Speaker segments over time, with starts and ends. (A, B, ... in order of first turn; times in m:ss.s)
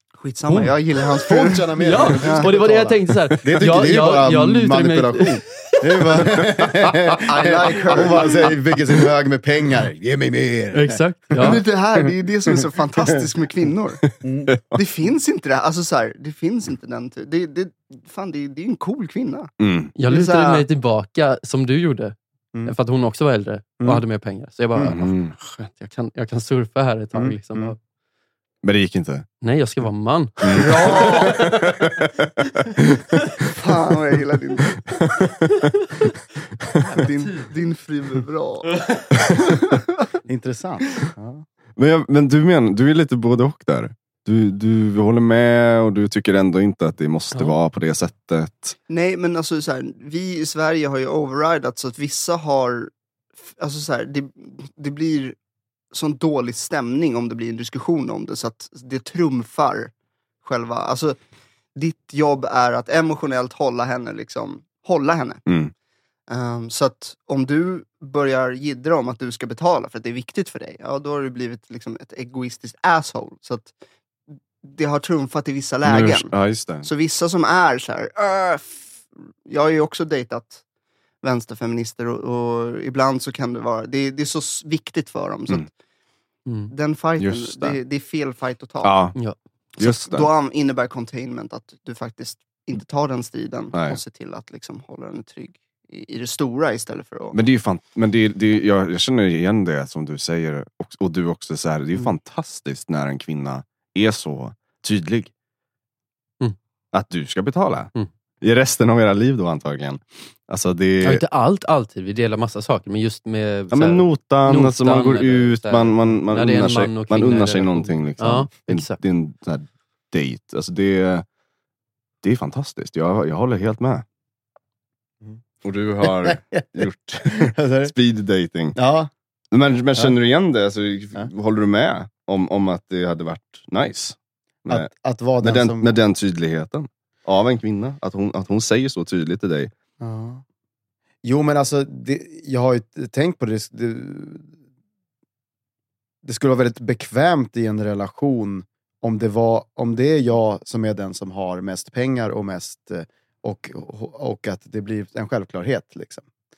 0:00.1-0:02.5 A
0:01.1-0:12.1 B
0:01.8-0:06.4 C
0:07.1-0:08.6 A
0:10.7-0:11.6 C
0:11.4-0:14.1 A
0:14.2-0:14.5 B
0:14.7-0:19.5 A
0:19.6-0:19.9 D
0:19.9-0:27.8 C
0:20.1-0:20.7 A
0:24.8-0:25.3 D
0:27.1-0:27.7 B
0:28.6-0:29.3 D
0:29.4-0:31.6 C
0:30.4-0:33.6 D
0:30.5-0:31.4 A
0:33.5-0:34.8 A
0:34.9-0:35.7 D
0:36.8-0:40.0 A
0:40.2-0:41.4 B
0:41.8-0:48.8 D
0:48.9-0:52.9 A
0:53.5-0:55.4 A
0:55.9-0:59.9 A
1:00.4-1:01.2 A
1:01.7-1:05.4 A
1:05.4-1:05.7 D
1:06.3-1:13.7 A
1:14.6-1:20.6 A
1:15.8-1:16.9 D
1:21.2-1:25.7 A
1:26.4-1:26.7 C
1:26.7-1:29.0 A
1:27.2-1:27.8 D
1:28.8-1:29.2 D
1:29.8-1:30.3 D
1:29.8-1:37.4 A
1:33.7-1:34.0 D
1:37.3-1:45.3 D
1:46.9-1:51.2 D
1:51.0-1:59.0 C
1:53.7-2:01.2 D
2:02.2-2:04.0 D
2:05.6-2:08.8 D
2:06.0-2:07.9 B
2:08.7-2:09.1 B
2:09.5-2:14.9 D
2:14.7-2:15.9 B
2:15.4-2:19.7 D
2:20.0-2:20.4 B
2:21.2-2:24.5 B
2:26.2-2:36.2 B